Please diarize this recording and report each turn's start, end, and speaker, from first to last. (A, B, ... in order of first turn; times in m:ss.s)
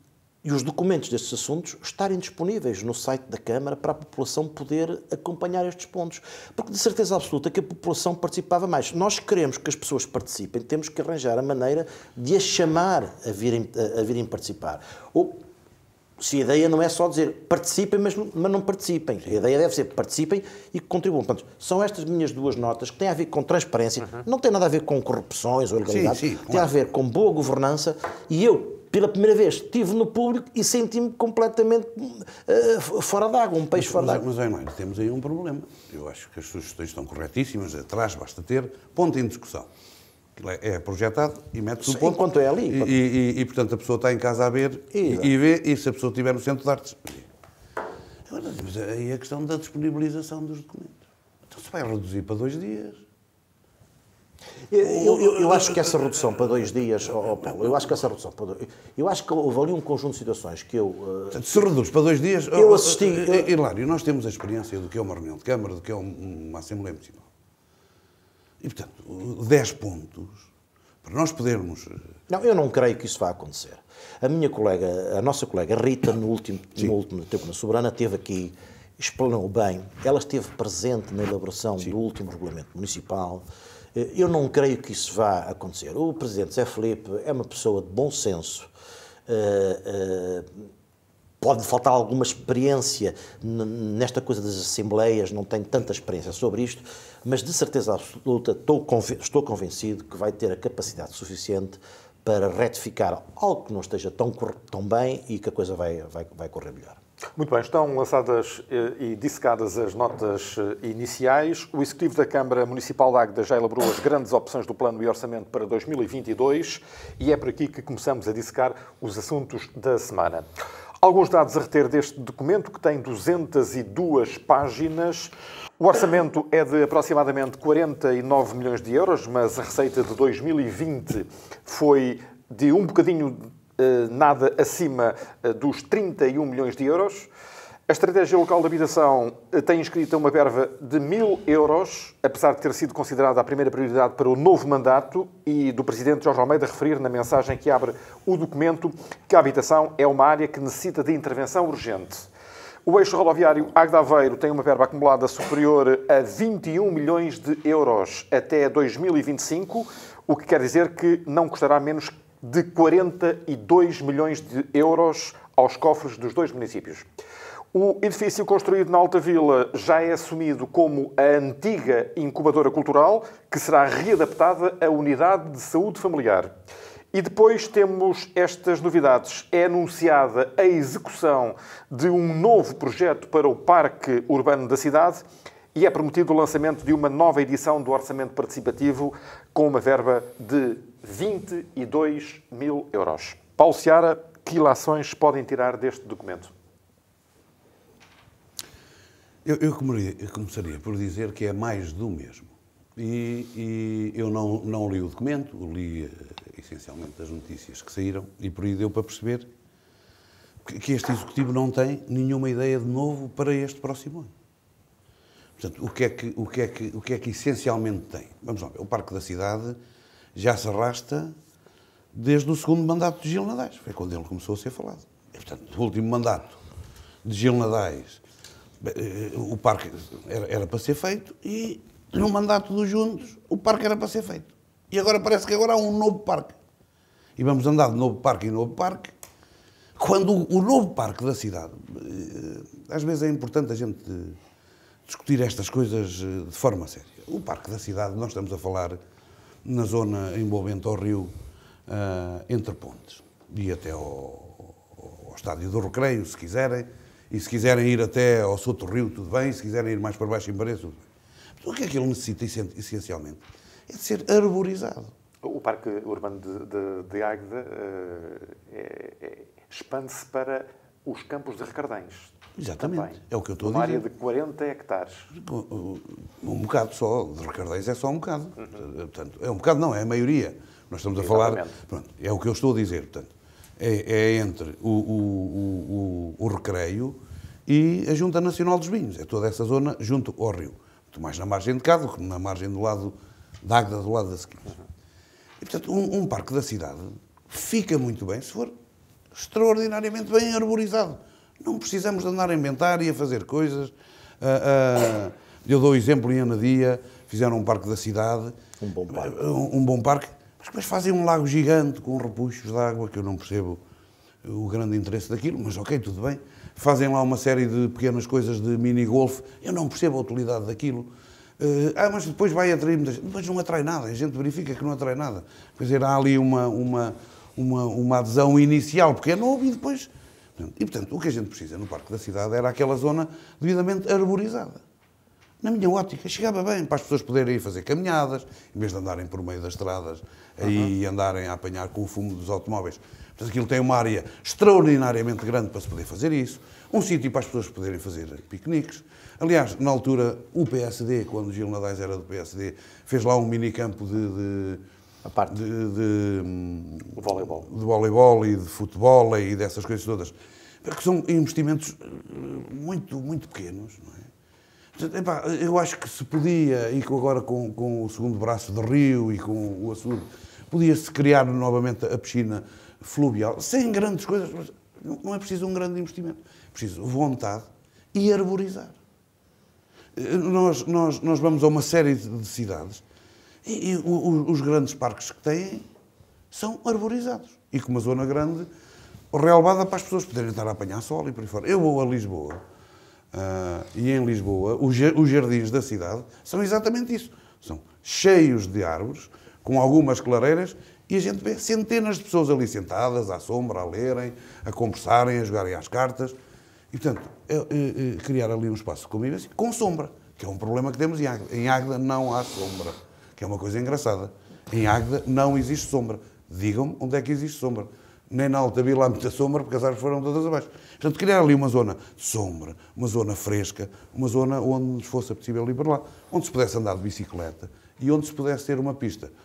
0:00.4-0:15.4 A
0:16.2-0:34.2 A
0:25.9-0:26.8 B
0:33.8-0:39.7 B
0:40.4-0:47.3 B
0:41.8-0:43.0 A
0:44.9-0:45.3 A
0:48.3-0:53.0 B
0:54.7-1:01.6 A
0:54.8-0:55.9 B
1:01.3-1:07.2 B
1:02.5-1:03.5 A
1:08.6-1:10.5 B
1:11.0-1:12.0 B
1:12.3-1:23.4 A
1:23.9-1:28.7 A
1:29.3-1:30.7 A
1:31.4-1:47.0 A
1:47.4-2:00.4 C
2:01.0-2:17.3 C
2:17.9-2:32.3 C
2:32.8-2:47.1 C
2:47.7-2:56.5 C
2:57.1-3:05.2 C
3:05.7-3:16.5 C
3:19.4-3:29.5 B
3:30.6-3:34.3 B
3:35.6-3:39.8 B
3:40.3-3:41.3 B
3:42.1-3:46.6 B
3:47.2-3:48.2 B
3:48.8-3:56.5 B
3:57.4-3:59.1 B
4:00.0-4:04.4 B
4:05.1-4:09.0 B
4:09.6-4:11.3 B
4:11.9-4:21.0 B
4:21.6-4:25.1 B
4:25.4-4:35.3 C
4:32.6-4:34.0 B
4:35.3-4:54.8 B
4:41.2-4:41.7 C
4:55.6-4:58.7 B
4:59.3-5:08.6 B
5:08.8-5:09.4 A
5:09.1-5:13.8 B
5:14.4-5:34.8 B
5:35.6-5:54.8 B
5:55.2-5:55.5 A
5:55.5-6:04.3 B
5:57.2-5:57.7 C
6:04.9-6:19.0 B
6:20.1-6:23.0 B
6:23.6-6:25.8 B
6:26.5-6:28.7 B
6:29.3-6:32.6 B
6:33.3-6:46.4 B
6:46.9-7:09.3 B